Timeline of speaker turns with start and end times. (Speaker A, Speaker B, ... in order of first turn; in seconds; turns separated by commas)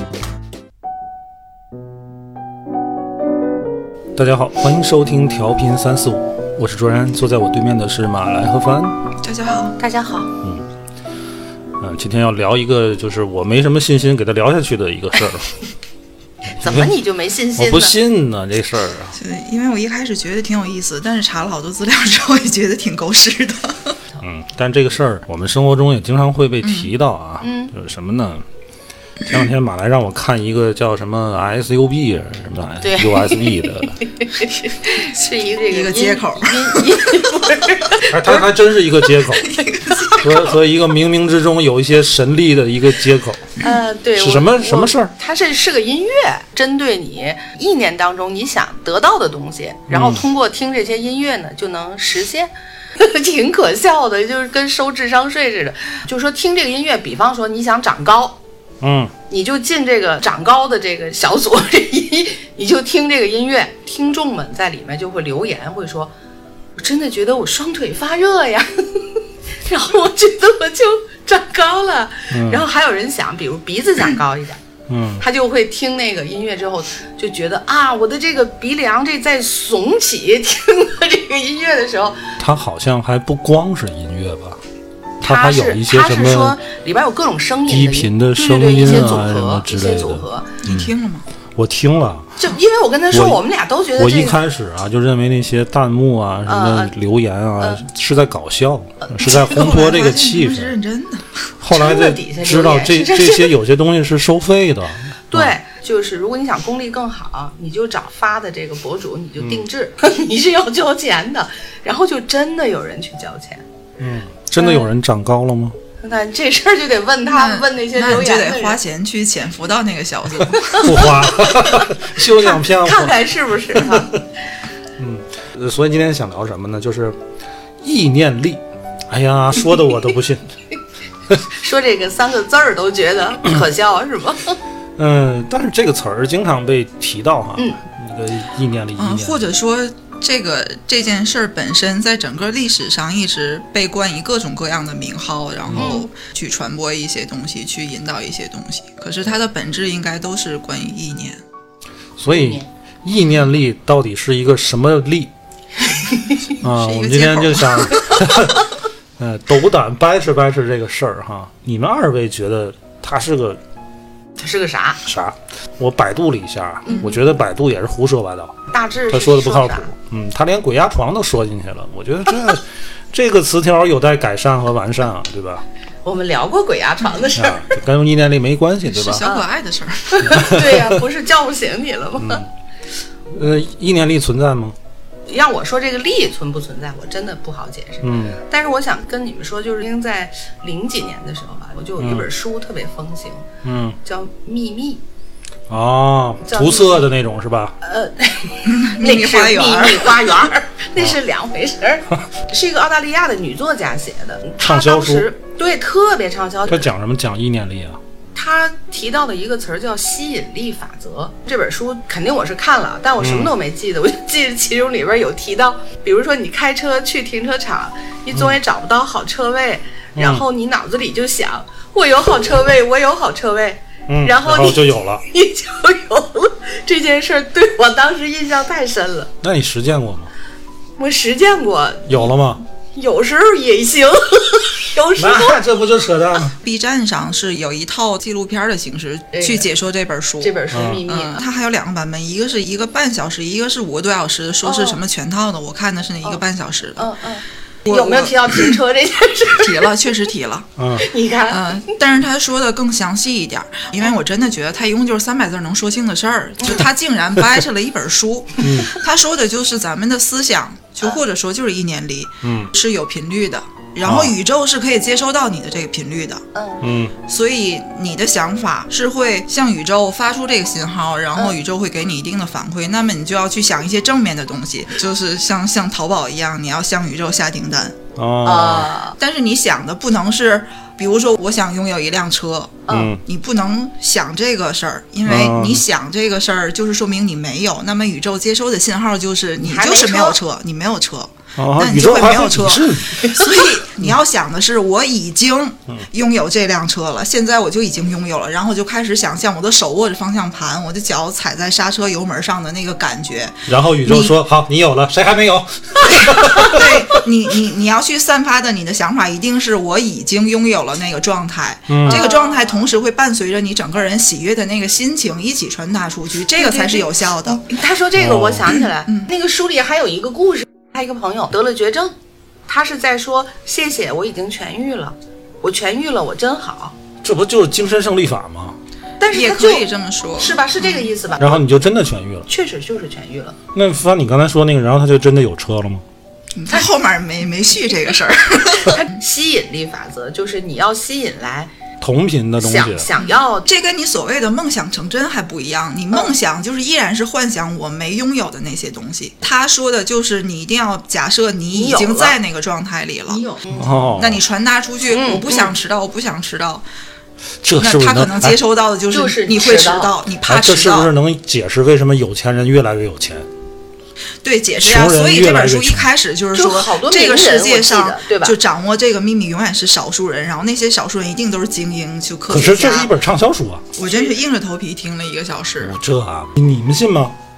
Speaker A: 4.2-9.0, Speaker B: 9.2-9.8, Speaker C: 9.8-10.3, Speaker A: 11.8-15.6, Speaker A: 16.6-16.9, Speaker C: 16.6-18.0, Speaker A: 17.6-19.2, Speaker B: 19.1-24.0, Speaker A: 24.2-28.4, Speaker B: 26.6-26.9, Speaker C: 27.4-27.7, Speaker A: 29.2-34.0, Speaker C: 32.8-38.4, Speaker B: 35.7-38.4, Speaker A: 38.1-39.6, Speaker B: 39.3-40.4, Speaker C: 39.9-40.2, Speaker A: 40.2-43.5, Speaker C: 43.6-58.4, Speaker A: 44.2-45.1, Speaker A: 49.9-50.2, Speaker A: 58.8-59.1, Speaker C: 59.3-66.1, Speaker C: 66.8-74.6, Speaker A: 72.3-72.6, Speaker A: 74.9-75.2, Speaker C: 75.2-82.4, Speaker A: 82.4-84.6, Speaker A: 85.2-86.6, Speaker C: 85.2-90.6, Speaker A: 87.7-90.9, Speaker B: 90.6-91.3, Speaker A: 91.6-92.4, Speaker C: 92.4-94.4, Speaker A: 93.1-93.4, Speaker A: 94.0-100.7, Speaker C: 96.5-96.9, Speaker C: 99.0-99.6, Speaker B: 99.4-101.4, Speaker A: 101.6-105.5, Speaker C: 101.7-103.5, Speaker C: 105.3-113.7, Speaker A: 109.4-109.7, Speaker A: 114.0-115.8, Speaker C: 114.6-114.9, Speaker C: 116.0-118.8, Speaker B: 117.3-121.2, Speaker C: 120.5-124.2, Speaker A: 120.8-124.1, Speaker A: 125.0-127.2, Speaker A: 127.8-130.4, Speaker C: 131.5-134.6, Speaker A: 135.0-139.5, Speaker B: 139.0-151.4, Speaker A: 145.7-145.9, Speaker C: 145.8-146.1, Speaker A: 152.2-155.3, Speaker C: 152.3-152.7, Speaker C: 155.9-156.4, Speaker A: 156.6-163.6, Speaker B: 156.6-158.2, Speaker C: 164.4-165.0, Speaker A: 165.1-168.6, Speaker C: 166.9-167.2, Speaker C: 168.7-169.9, Speaker A: 169.1-175.6, Speaker C: 176.0-177.7, Speaker A: 177.3-179.3, Speaker B: 178.9-180.5, Speaker C: 180.1-182.4, Speaker A: 180.3-181.0, Speaker A: 182.2-182.5, Speaker A: 183.3-184.8, Speaker C: 185.3-193.5, Speaker A: 188.0-188.4, Speaker A: 192.0-192.3, Speaker A: 193.6-194.0, Speaker C: 194.1-195.0, Speaker A: 195.7-197.8, Speaker C: 196.5-197.1, Speaker C: 197.8-206.9, Speaker B: 198.6-200.4, Speaker A: 204.6-205.3, Speaker A: 206.7-208.0, Speaker C: 208.3-229.3, Speaker A: 213.2-213.5, Speaker A: 220.2-220.4, Speaker A: 224.1-225.2, Speaker A: 229.4-230.3, Speaker C: 231.0-232.3, Speaker A: 232.1-232.6, Speaker C: 232.9-235.6, Speaker A: 235.2-236.6, Speaker B: 236.6-247.1, Speaker C: 239.3-239.7, Speaker C: 240.4-241.4, Speaker A: 240.7-241.0, Speaker C: 244.7-245.0, Speaker C: 247.0-249.9, Speaker B: 247.9-248.8, Speaker B: 249.6-250.7, Speaker A: 250.8-251.1, Speaker C: 251.0-251.9, Speaker B: 251.5-266.4, Speaker A: 258.6-258.9, Speaker A: 262.4-262.7, Speaker A: 264.0-264.3, Speaker C: 266.6-266.9, Speaker A: 266.8-267.1, Speaker B: 267.2-278.0, Speaker A: 278.2-278.9, Speaker C: 278.4-279.2, Speaker B: 279.2-304.4, Speaker A: 282.9-283.2, Speaker A: 285.3-285.8, Speaker C: 289.6-290.4, Speaker A: 291.6-293.3, Speaker A: 303.7-307.2, Speaker C: 306.3-306.7, Speaker B: 306.6-317.8, Speaker A: 311.9-312.2, Speaker C: 312.1-312.8, Speaker C: 316.6-322.1, Speaker A: 318.2-318.7, Speaker B: 319.1-319.3, Speaker C: 322.7-327.0, Speaker A: 327.2-328.8, Speaker B: 329.2-330.9, Speaker C: 329.2-329.8, Speaker C: 330.4-331.6, Speaker A: 331.4-332.5, Speaker C: 332.5-333.6, Speaker A: 333.7-336.0, Speaker B: 336.5-339.0, Speaker C: 338.8-341.7, Speaker A: 342.0-343.1, Speaker C: 342.6-343.7, Speaker B: 343.2-356.9, Speaker C: 351.7-352.4, Speaker C: 353.3-353.9, Speaker A: 353.8-354.4, Speaker C: 355.1-355.7, Speaker A: 357.6-358.6, Speaker B: 357.8-361.1, Speaker C: 359.1-360.1, Speaker A: 360.5-363.5, Speaker B: 364.4-373.1, Speaker A: 364.8-366.1, Speaker C: 366.5-368.6, Speaker A: 372.5-373.9, Speaker B: 374.0-376.0, Speaker C: 374.0-374.3, Speaker A: 375.8-377.4